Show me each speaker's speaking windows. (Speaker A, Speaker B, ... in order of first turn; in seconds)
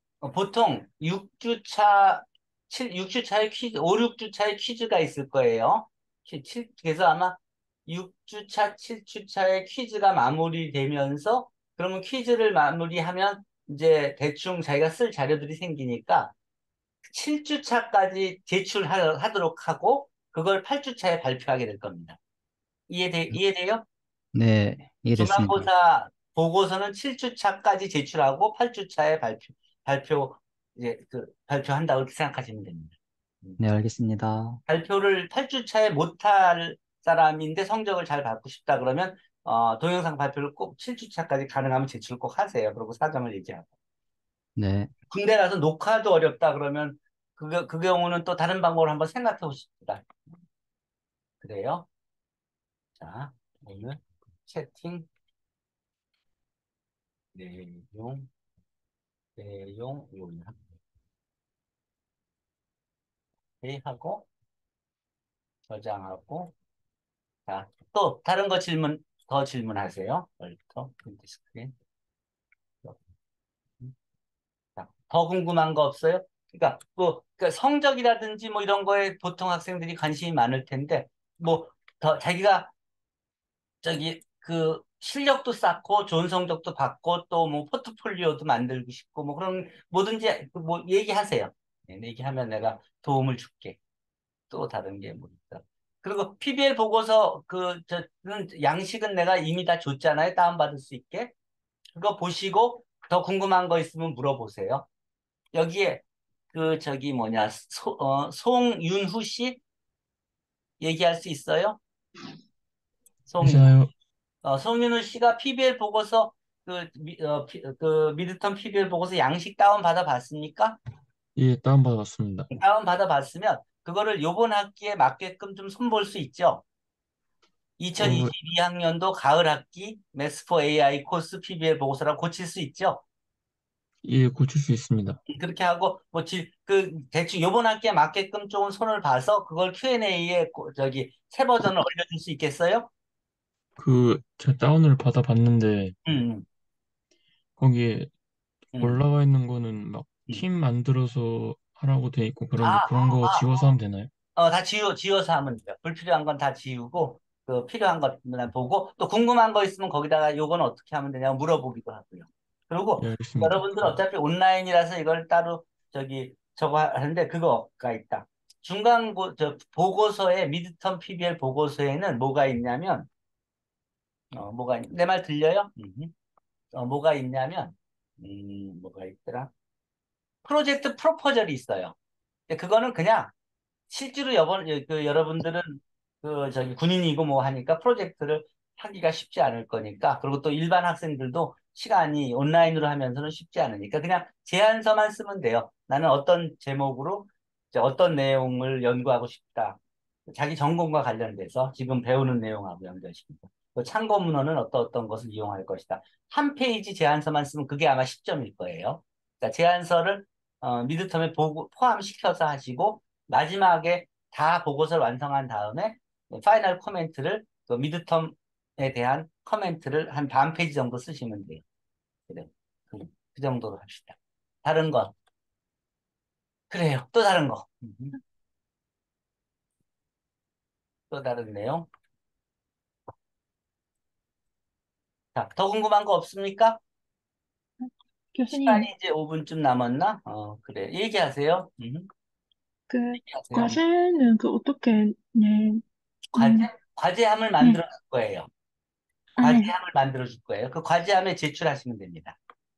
Speaker A: 0.2-16.3, 17.1-22.2, 22.9-23.8, 25.1-33.6, 34.7-43.7, 45.1-50.1, 51.4-51.9, 53.0-55.1, 57.4-58.3, 59.4-60.6, 63.6-64.3, 65.7-66.5, 67.5-71.7, 74.8-82.7, 83.8-93.8, 94.5-101.3, 102.0-104.9, 105.5-106.0, 106.5-109.6, 110.8-111.8, 113.3-113.8, 114.4-120.8, 122.5-126.6, 127.8-133.0, 135.3-142.9, 146.1-146.5, 148.7-149.0, 152.6-153.7, 154.4-173.1, 174.3-176.1, 176.7-179.5, 180.4-181.9, 182.5-183.3, 183.9-221.6, 222.3-225.1, 226.7-228.2, 231.1-231.9, 235.3-236.8, 238.5-242.1, 243.2-243.8, 246.3-248.5, 249.4-252.4
Speaker B: 24.3-25.7, 33.6-34.6, 44.6-44.9
Speaker C: 113.4-113.9, 121.4-122.5, 128.0-128.3, 134.0-135.2, 143.8-145.9, 147.6-148.1, 148.8-154.1, 163.0-164.0
Speaker D: 237.8-238.9, 242.9-245.8, 246.4-246.7, 249.4-249.7